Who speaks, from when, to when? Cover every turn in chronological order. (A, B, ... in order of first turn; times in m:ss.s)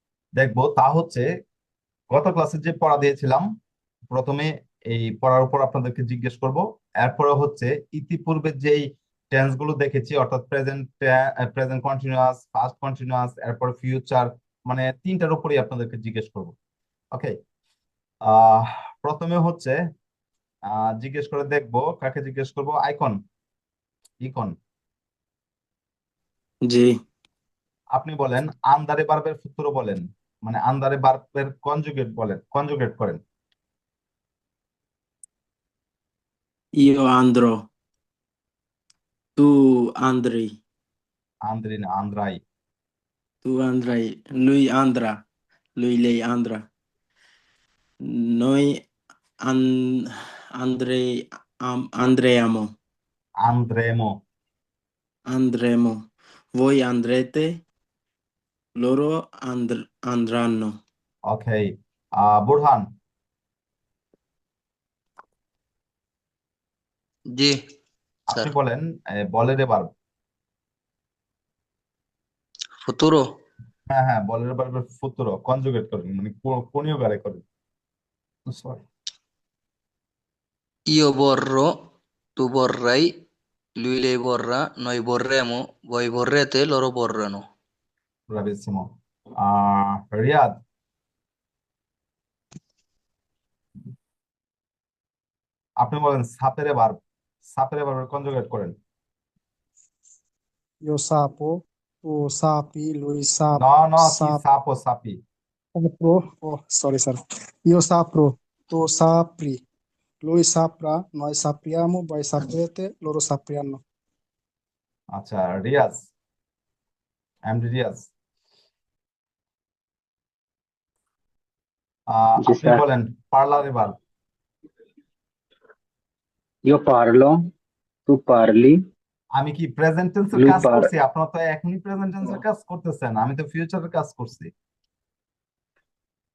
0:00.4-0:01.3 A
0:02.1-0:03.4 A
0:04.1-0:16.6 A
0:18.3-0:19.8 A
0:20.7-0:23.2 A
0:24.2-0:24.5 A
0:27.9-0:33.2 A
0:36.8-0:37.6 B
0:39.4-0:40.5 B
0:41.5-0:42.4 A
0:43.4-0:45.1 B
0:45.8-0:46.6 B
0:48.1-0:48.7 B
0:49.4-0:49.8 B
0:50.6-0:51.0 B
0:51.7-0:52.7 B
0:53.4-0:54.1 A
0:55.3-0:56.0 B
0:56.5-0:57.4 B
0:58.8-1:00.7 B
1:01.3-1:02.9 A
1:08.3-1:09.9 A
1:12.8-1:13.2 C
1:13.9-1:17.4 A
1:18.5-1:18.8 A
1:20.9-1:21.7 C
1:22.4-1:23.1 C
1:23.8-1:27.4 C
1:28.3-1:28.9 A
1:29.4-1:30.5 A
1:35.8-1:38.7 A
1:40.8-1:44.4 D
1:43.6-1:45.2 A
1:45.8-1:49.6 D
1:50.2-1:53.8 D
1:55.1-1:56.0 A
1:57.5-1:58.1 A
2:02.1-2:03.9 A
2:02.4-2:02.8 E
2:06.7-2:07.4 E
2:08.1-2:08.7 E
2:09.4-2:14.5 A
2:10.4-2:10.8 E